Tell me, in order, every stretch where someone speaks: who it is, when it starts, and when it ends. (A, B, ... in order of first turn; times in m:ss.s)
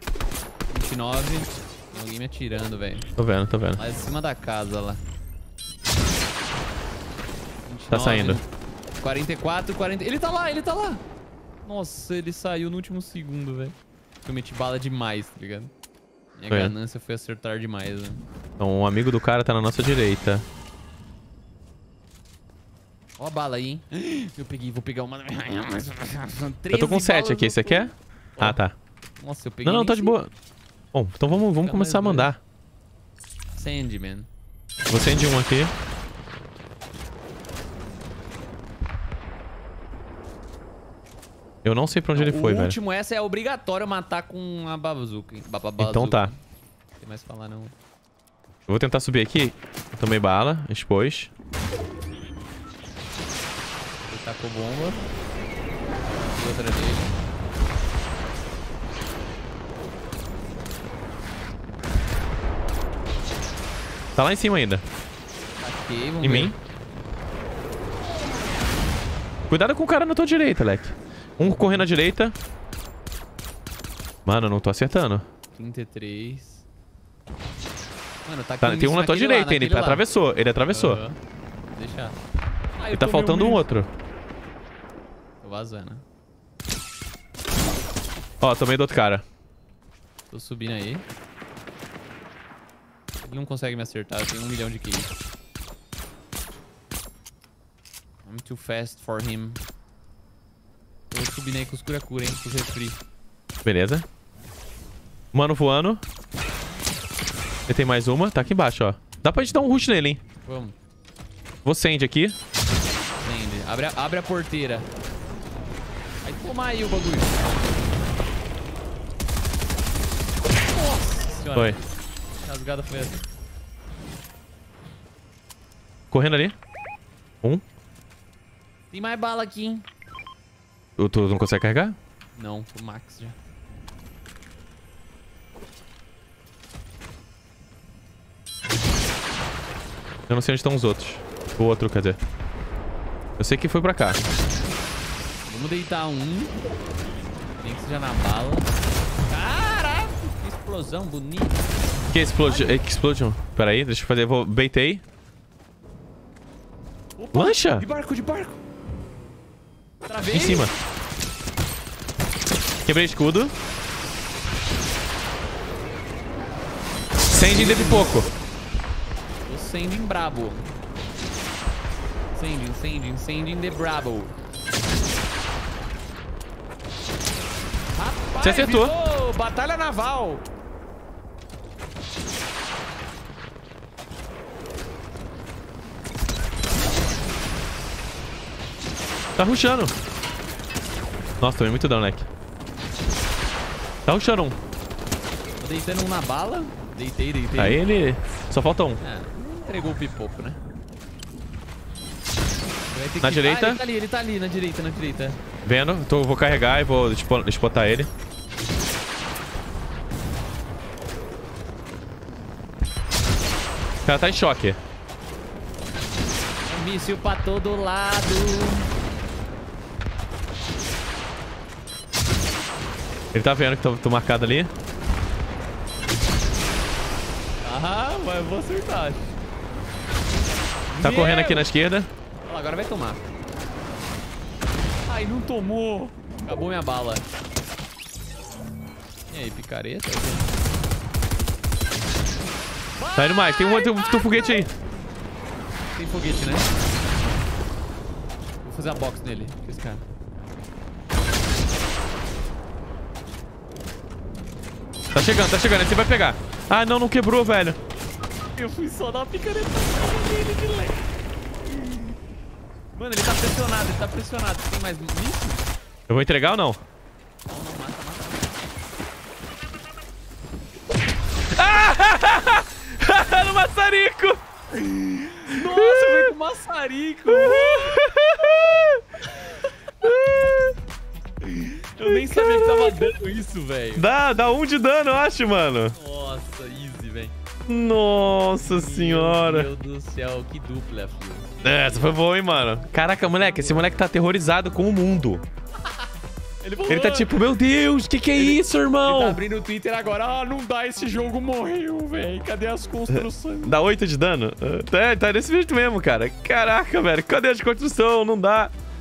0:00.7-0:03.1 A
0:03.2-0:03.8 B
0:03.8-0:05.0 A
0:07.6-0:08.5 A
0:07.9-0:08.4 B
0:09.0-0:11.0 A
0:11.6-0:15.7 A
0:16.4-0:18.2 A
0:18.6-0:20.4 B
0:23.2-0:28.6 A
0:26.7-0:28.8 B
0:29.2-0:30.2 A
0:29.6-0:30.3 B
0:30.9-0:32.4 B
0:31.3-0:32.3 A
0:33.6-0:34.3 A
0:34.9-0:35.7 B
0:41.6-0:42.8 B
0:42.1-0:46.4 A
0:45.8-0:46.3 B
0:47.0-0:47.8 A
0:48.7-0:51.3 B
0:54.0-0:55.1 A
0:56.2-0:57.2 A
1:04.2-1:04.8 B
1:05.6-1:06.5 A
1:06.2-1:06.6 B
1:09.5-1:12.4 B
1:11.4-1:11.9 A
1:14.3-1:15.2 B
1:15.5-1:16.6 A
1:18.2-1:20.0 A
1:18.6-1:21.0 B
1:20.7-1:21.2 A
1:21.7-1:22.2 A
1:22.8-1:23.7 A
1:22.9-1:23.9 B
1:25.4-1:26.0 A
1:28.4-1:29.2 B
1:30.3-1:31.0 A
1:33.2-1:35.1 A
1:38.2-1:39.6 A
1:41.1-1:43.0 A
1:43.6-1:44.0 B
1:45.3-1:46.0 B
1:47.7-1:50.2 B
1:50.4-1:50.8 A
1:51.6-1:52.4 B
1:53.2-1:54.9 A
1:56.2-1:57.5 A
2:00.7-2:01.8 A
2:02.4-2:03.2 A
2:06.1-2:06.6 B
2:08.9-2:09.9 A
2:11.0-2:12.0 B
2:12.4-2:13.4 A
2:20.3-2:22.2 B
2:23.4-2:24.2 B
2:25.4-2:26.6 A
2:27.6-2:28.7 A
2:29.3-2:31.7 A
2:32.1-2:35.0 B
2:32.4-2:32.8 A
2:37.2-2:38.6 A
2:37.3-2:37.8 B
2:40.0-2:40.7 A
2:40.3-2:40.7 B
2:42.8-2:43.5 B
2:47.3-2:48.3 B
2:47.4-2:48.3 A
2:49.4-2:50.8 A
2:52.3-2:54.4 A
2:57.9-3:00.4 A
2:58.4-2:58.9 B
3:09.4-3:09.9 B
3:11.4-3:12.3 B
3:14.1-3:14.6 B
3:15.6-3:17.8 A
3:17.6-3:19.0 B
3:19.0-3:20.6 A
3:22.9-3:25.4 A
3:23.2-3:23.8 B
3:25.6-3:28.1 B
3:34.0-3:34.8 B
3:36.7-3:38.9 A
3:43.3-3:44.7 B
3:47.6-3:49.4 A
3:50.9-3:51.7 A
3:51.0-3:52.1 B
3:52.4-3:53.3 A
3:55.1-3:57.3 A
3:59.3-4:00.6 A
4:03.0-4:04.6 A
4:03.2-4:04.7 B
4:05.9-4:07.5 A
4:08.6-4:10.0 A
4:15.1-4:17.8 B
4:18.5-4:21.1 A
4:23.0-4:25.7 A
4:26.1-4:26.8 B
4:27.5-4:28.6 A
4:31.5-4:34.4 B
4:34.8-4:38.0 A
4:35.5-4:36.3 B
4:37.3-4:39.0 B
4:39.3-4:39.7 A
4:40.0-4:40.8 B
4:41.4-4:44.1 A
4:42.0-4:43.0 B
4:44.0-4:46.0 B
4:46.0-4:47.3 A
4:47.7-4:49.7 B
4:48.6-4:52.1 A
4:51.6-4:55.4 B
4:53.4-4:53.9 A
4:56.6-4:57.5 A
4:56.9-4:59.4 B
4:58.4-5:03.8 A
5:03.1-5:08.7 B